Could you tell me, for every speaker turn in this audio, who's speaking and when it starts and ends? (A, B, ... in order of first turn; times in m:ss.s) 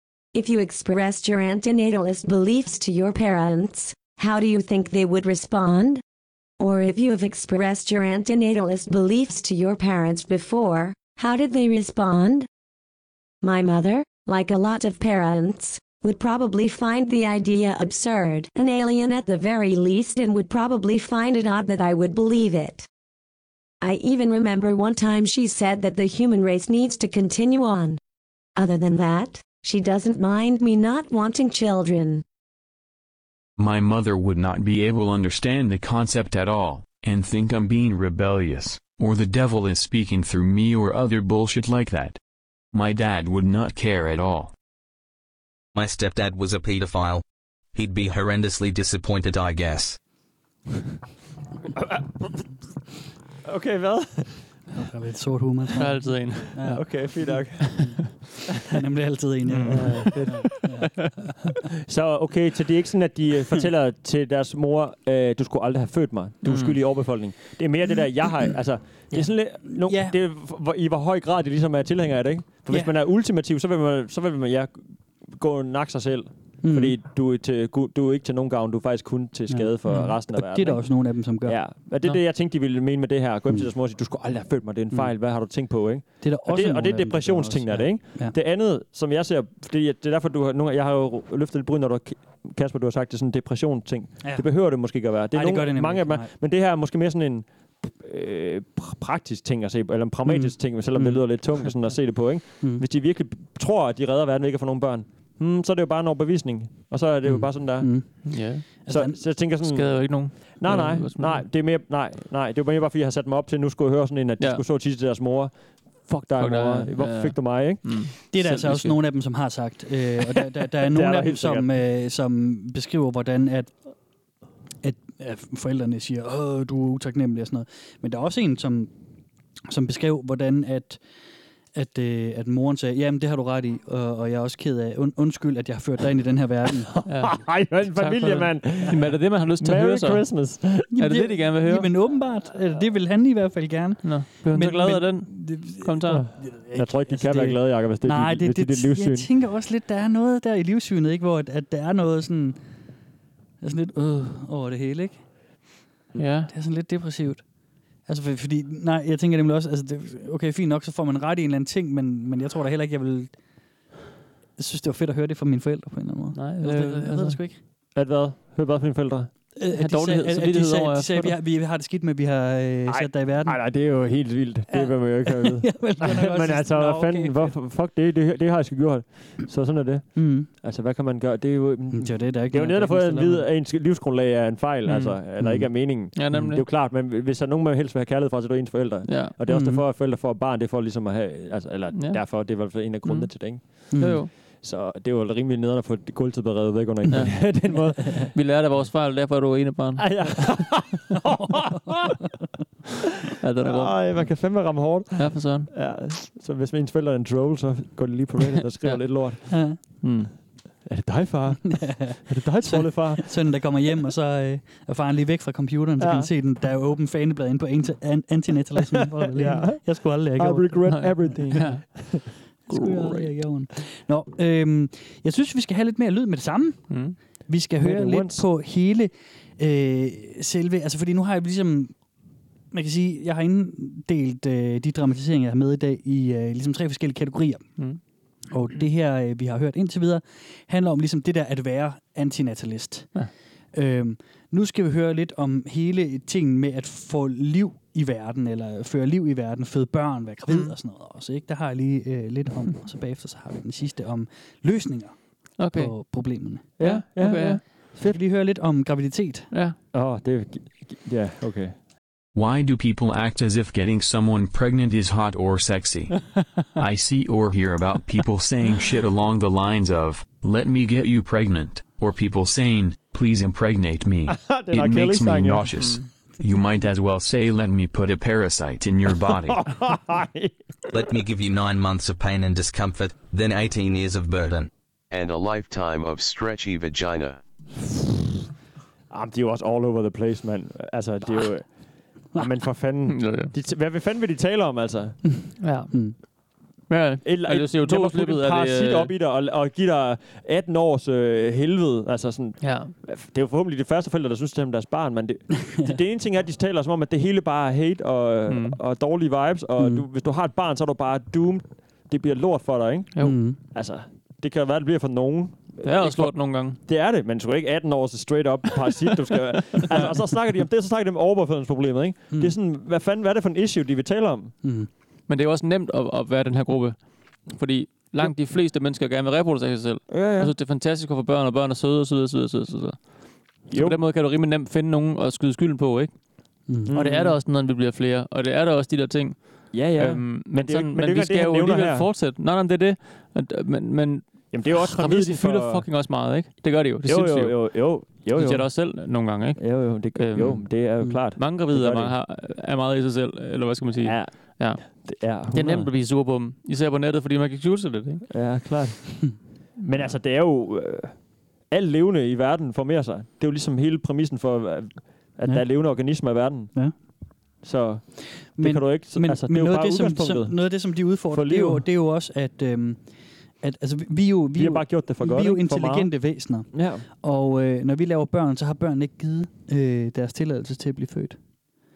0:00.3-0:06.0 A
0:06.6-0:12.5 A
0:13.4-0:22.9 A
0:23.8-0:28.0 A
0:28.6-0:32.2 A
0:33.6-0:42.2 B
0:42.7-0:44.5 B
0:45.8-0:47.2 C
0:47.8-0:50.0 C
0:51.8-0:52.3 D
0:53.4-0:54.4 D
0:54.7-0:58.0 E
0:55.8-0:56.7 F
0:56.6-0:58.0 D
0:58.6-1:01.5 E
0:59.5-1:01.3 F
0:59.7-1:00.2 D
1:01.9-1:58.0 D
1:06.4-1:07.4 F
1:09.1-1:10.2 E
1:16.6-1:17.0 E
1:19.5-1:21.6 E
1:24.9-1:25.2 E
1:26.2-1:28.4 E
1:34.2-1:36.3 E
1:40.2-1:41.4 E
1:41.0-1:41.7 F
1:42.6-1:42.8 E
1:47.2-1:49.2 E
1:48.2-1:48.7 F
1:49.4-1:51.5 F
1:56.4-1:59.0 F
1:58.3-2:03.9 E
2:00.8-2:01.7 D
2:04.8-2:08.9 E
2:09.7-2:11.0 E
2:11.7-2:17.0 E
2:17.0-2:20.9 D
2:17.1-2:21.9 F
2:20.9-2:32.6 E
2:24.0-2:26.2 F
2:26.1-2:29.3 D
2:33.6-2:35.3 E
2:36.2-2:36.5 F
2:36.5-2:37.5 E
2:38.0-2:43.4 E
2:44.6-2:47.6 E
2:46.4-2:47.4 F
2:47.9-2:49.3 D
2:49.6-2:53.6 E
2:49.7-2:51.4 F
2:52.9-3:18.3 D
2:54.7-2:57.5 E
3:00.1-3:00.5 E
3:01.9-3:03.5 E
3:04.9-3:05.2 F
3:05.4-3:05.7 E
3:06.2-3:06.6 F
3:09.1-3:09.4 F
3:09.5-3:09.8 E
3:11.9-3:12.5 F
3:13.0-3:14.3 F
3:13.9-3:14.3 E
3:17.1-3:20.6 F
3:20.0-3:22.2 D
3:23.4-3:24.3 F
3:23.6-3:29.4 D
3:25.2-3:25.7 F
3:29.5-3:29.8 E
3:30.0-3:30.3 F
3:30.8-3:33.3 D
3:31.7-3:41.0 E
3:36.0-3:36.3 D
3:38.9-3:42.9 D
3:40.9-3:41.9 F
3:42.7-3:52.0 E
3:46.9-3:47.2 F
3:47.8-3:48.4 D
3:52.7-3:57.9 E
3:58.5-4:03.2 E
4:03.7-4:16.8 E
4:10.5-4:10.7 F
4:15.6-4:16.0 F
4:16.8-4:18.2 D
4:16.8-4:17.8 F
4:17.3-4:19.5 E
4:19.9-4:21.8 D
4:22.3-4:26.2 B
4:26.8-4:39.6 B
4:34.3-4:35.7 D
4:35.8-4:36.0 F
4:39.3-4:40.6 D
4:40.9-4:44.7 C
4:45.1-4:47.4 G
4:49.1-4:55.2 D
4:53.1-4:53.5 F
4:55.6-4:59.1 F
4:55.9-4:56.2 E
4:57.2-5:24.6 D
5:02.6-5:02.9 F
5:05.6-5:06.0 E
5:08.5-5:08.8 F
5:09.8-5:10.0 E
5:13.2-5:13.6 E
5:15.8-5:16.8 F
5:22.3-5:22.6 E
5:24.6-5:24.9 E
5:25.3-5:58.3 F
5:30.1-5:30.5 D
5:33.7-5:34.0 D
5:36.7-5:37.0 E
5:36.9-5:37.4 D
5:39.7-5:42.1 D
5:44.5-5:45.9 D
5:47.0-5:48.9 D
5:49.6-5:52.1 D
5:54.0-5:55.9 D
5:58.3-6:06.9 D
6:05.4-6:06.2 E
6:07.6-6:11.8 D
6:08.4-6:21.5 E
6:14.6-6:16.1 D
6:16.7-6:17.1 D